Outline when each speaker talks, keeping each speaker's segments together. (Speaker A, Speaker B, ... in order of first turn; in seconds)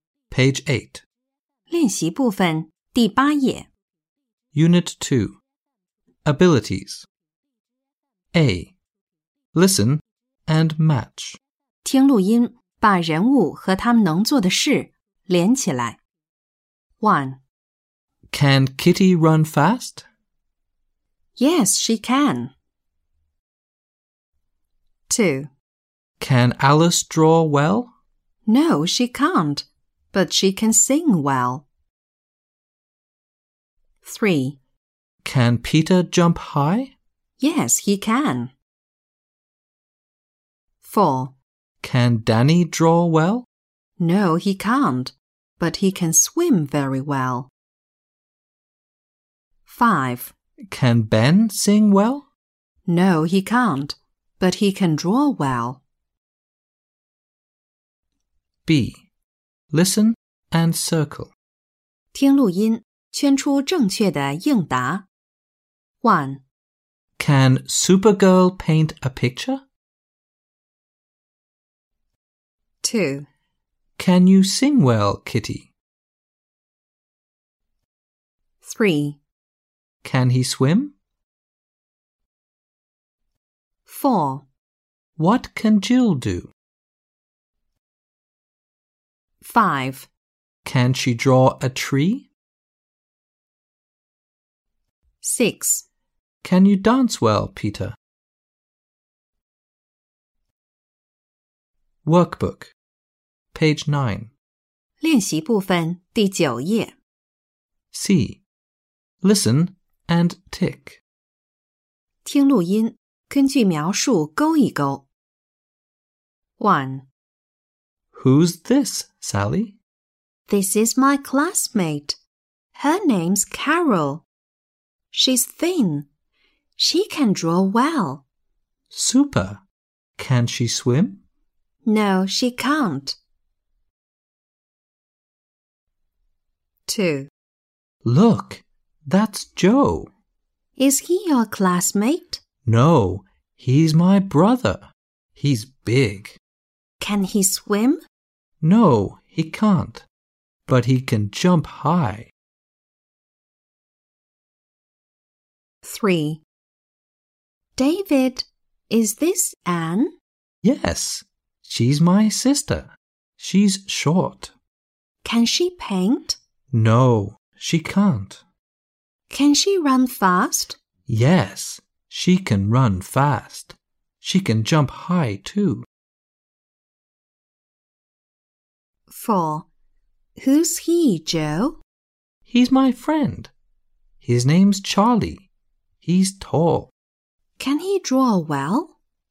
Speaker A: 0.3-1.0, 4.5-5.4, 6.2-7.1, 8.3-8.7, 9.5-11.4, 18.3-20.1, 26.2-27.9, 35.2-36.9, 41.8-43.5, 50.7-52.3, 58.7-59.0, 59.7-61.4, 67.2-69.6, 74.0-75.7, 80.0-81.0, 85.2-86.5, 90.7-92.3, 96.4-98.0, 102.0-102.7, 103.5-104.3, 107.9-108.4, 109.2-111.0, 118.1-119.8, 128.9-129.6, 130.2-131.2, 138.0-140.1, 142.7-146.4, 148.6-150.1, 150.7-152.3, 160.6-164.5, 166.7-168.4, 171.1-175.9, 182.5-183.5, 184.2-185.5, 186.0-186.9
Speaker B: 1.7-3.7, 11.8-16.0, 17.0-17.4, 21.4-22.5, 25.1-25.5, 28.5-31.7, 34.0-34.6, 37.4-38.5, 40.8-41.4, 44.0-47.5, 49.7-50.3, 52.9-55.8, 62.1-65.1, 66.0-66.4, 72.8-73.3, 78.6-79.2, 83.9-84.5, 89.4-90.1, 95.2-95.9, 105.0-106.9, 112.2-115.1, 116.6-117.1, 120.5-122.2, 122.8-124.2, 125.1-126.1, 126.8-128.2, 131.8-133.2, 136.9-137.3, 140.8-142.4, 147.0-148.0, 155.8-156.4, 157.8-160.1, 165.2-166.4, 169.3-170.8, 179.1-179.7, 180.4-181.8, 187.6-188.9